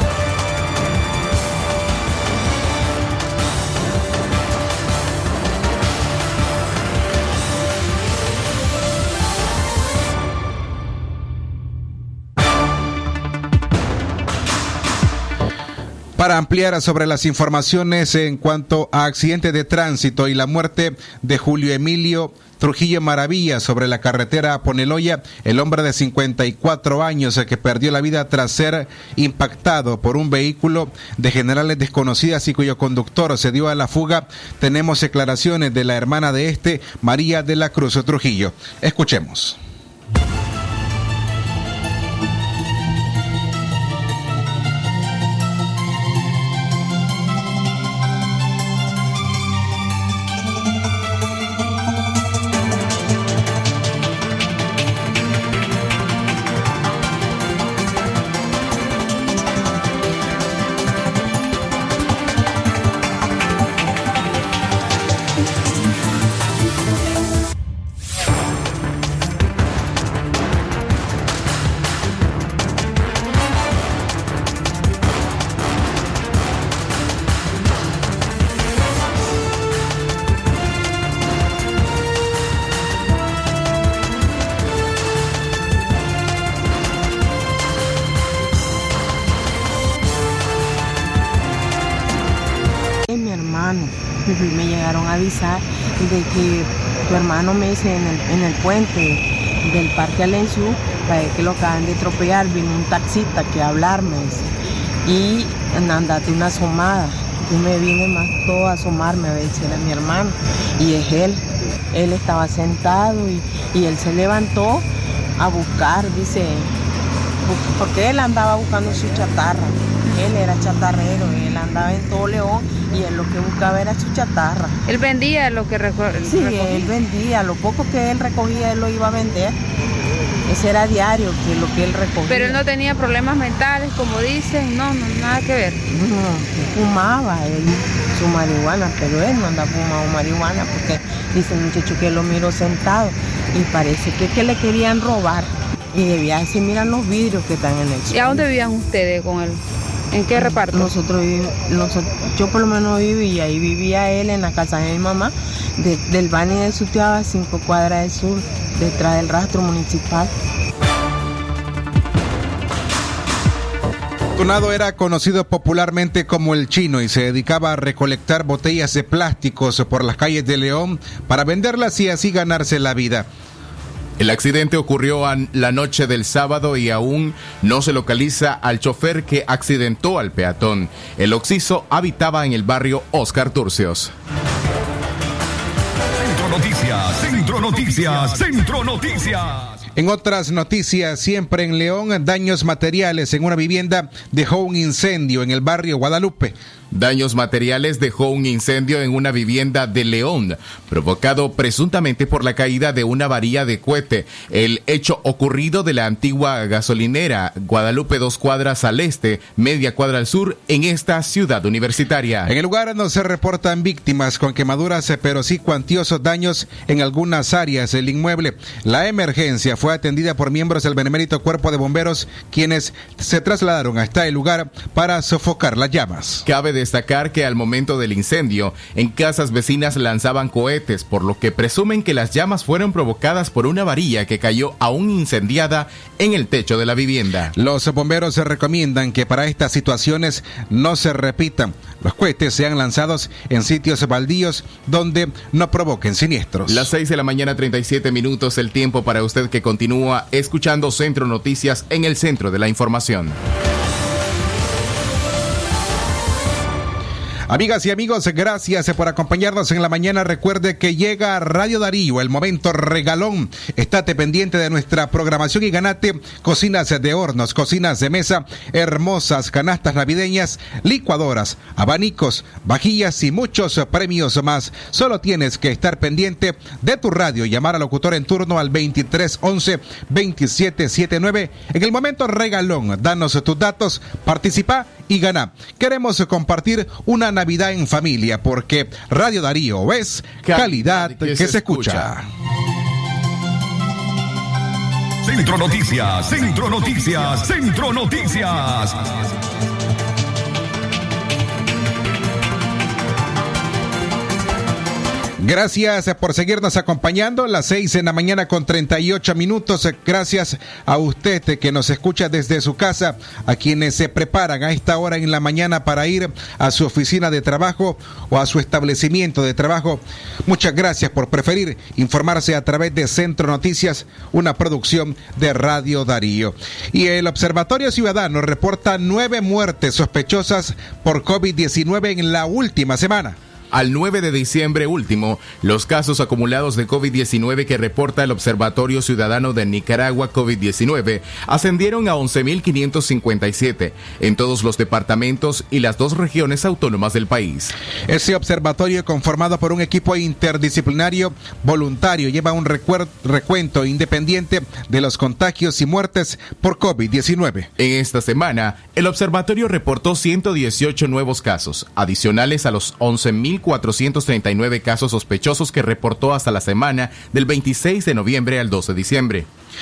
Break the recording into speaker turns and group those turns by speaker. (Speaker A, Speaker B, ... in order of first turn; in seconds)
Speaker A: 16.2-39.6, 164.4-173.3, 190.0-196.6, 212.5-226.5, 237.6-246.9, 257.5-292.3, 305.4-333.4, 348.1-357.7
Speaker B: 93.1-104.5, 105.0-116.7, 117.4-124.8, 126.2-129.6, 130.5-132.6, 135.9-148.5, 150.3-160.3
Speaker C: 124.9-126.9, 132.3-135.8, 148.1-149.6, 150.1-150.9
Speaker D: 174.2-184.1, 196.9-212.5, 226.5-237.5, 246.7-253.4, 290.4-292.1, 333.7-347.8, 357.8-369.5
Speaker E: 186.2-189.7, 295.2-299.2